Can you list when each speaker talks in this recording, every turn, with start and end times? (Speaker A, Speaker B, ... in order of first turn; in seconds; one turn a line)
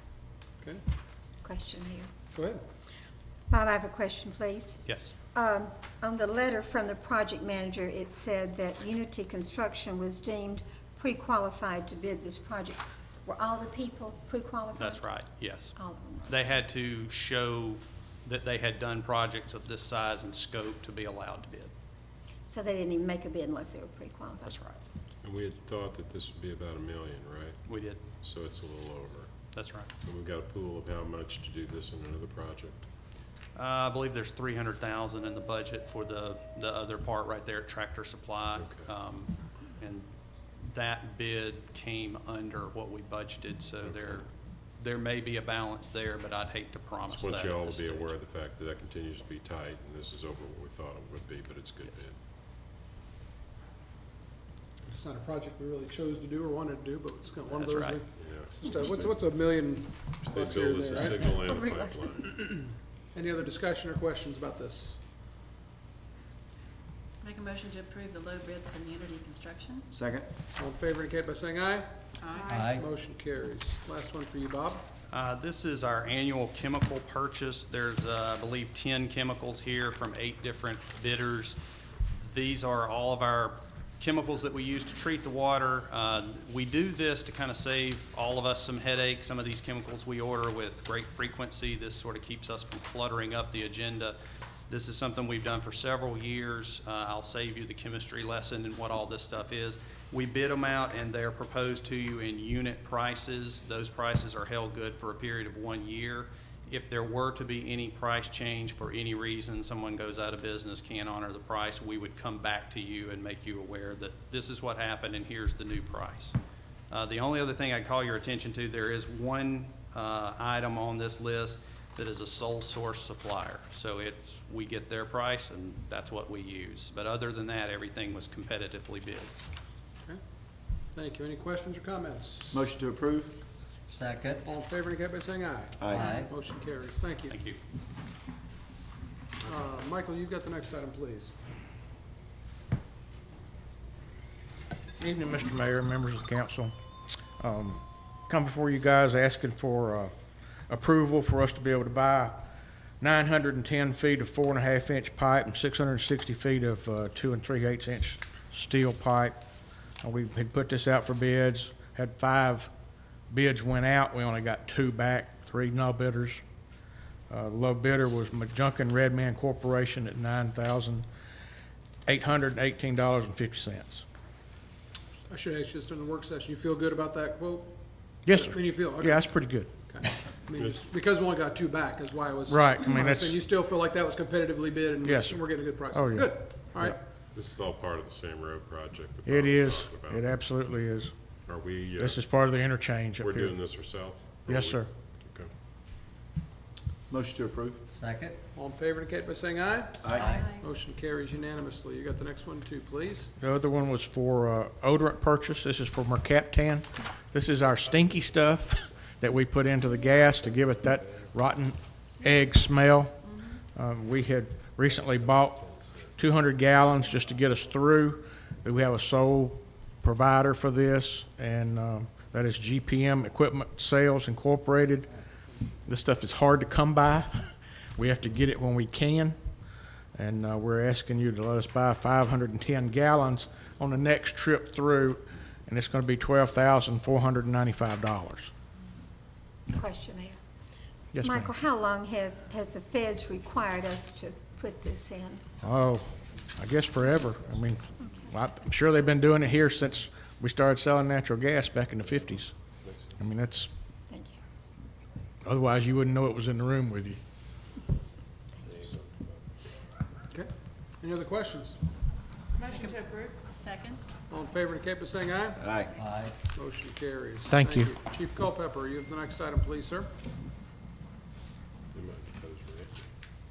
Speaker A: 1.4-2.1
Speaker B: 2.3-2.6
Speaker A: 3.5-4.8
Speaker C: 4.8-5.1
Speaker A: 5.3-15.1
Speaker C: 14.8-15.8
Speaker A: 15.8-16.3
Speaker C: 16.3-21.7
Speaker A: 22.4-24.6
Speaker C: 24.4-24.8
Speaker D: 25.2-27.6
Speaker C: 27.7-28.0
Speaker D: 28.2-29.3
Speaker C: 29.5-29.9
Speaker D: 30.0-32.9
Speaker C: 33.5-48.1
Speaker D: 38.6-38.9
Speaker D: 43.8-44.2
Speaker D: 47.1-52.2
Speaker B: 54.8-61.4
Speaker C: 57.5-58.0
Speaker D: 58.2-58.8
Speaker D: 60.2-62.3
Speaker A: 61.2-62.1
Speaker B: 62.4-65.0
Speaker E: 67.2-69.9
Speaker F: 70.0-70.3
Speaker B: 70.6-71.9
Speaker E: 72.2-72.7
Speaker G: 72.5-72.9
Speaker B: 72.7-74.9
Speaker C: 75.1-81.6
Speaker C: 82.2-94.2
Speaker C: 94.7-116.4
Speaker C: 116.9-129.3
Speaker B: 130.9-132.7
Speaker F: 132.6-133.4
Speaker G: 133.9-134.5
Speaker B: 134.4-137.4
Speaker G: 135.9-136.3
Speaker C: 137.3-137.6
Speaker B: 139.4-141.3
Speaker H: 145.0-146.7
Speaker H: 147.4-150.1
Speaker H: 150.7-152.4
Speaker H: 153.0-159.4
Speaker H: 160.0-162.7
Speaker H: 163.3-166.4
Speaker H: 167.3-171.1
Speaker H: 172.1-174.1
Speaker B: 175.3-177.8
Speaker H: 178.2-179.7
Speaker B: 178.3-187.0
Speaker D: 180.6-180.8
Speaker H: 182.5-183.4
Speaker H: 185.1-185.4
Speaker H: 185.9-187.0
Speaker D: 187.3-190.5
Speaker H: 189.3-191.1
Speaker D: 191.5-192.2
Speaker H: 192.0-193.6
Speaker D: 193.2-195.5
Speaker H: 194.5-194.9
Speaker F: 197.1-197.8
Speaker G: 197.9-198.4
Speaker B: 198.6-203.3
Speaker E: 200.1-200.7
Speaker H: 203.4-225.1
Speaker D: 214.9-216.1
Speaker D: 217.0-217.2
Speaker H: 225.8-229.4
Speaker H: 230.2-238.5
Speaker A: 239.7-240.4
Speaker H: 241.1-241.5
Speaker A: 241.2-245.4
Speaker H: 245.6-252.6
Speaker H: 253.2-253.7
Speaker A: 254.1-254.4
Speaker H: 255.4-257.2
Speaker D: 258.6-259.4
Speaker B: 260.3-261.8
Speaker E: 262.6-264.0
Speaker B: 264.3-265.8
Speaker G: 265.9-266.4
Speaker B: 266.5-270.1
Speaker H: 267.5-267.9
Speaker D: 271.9-272.9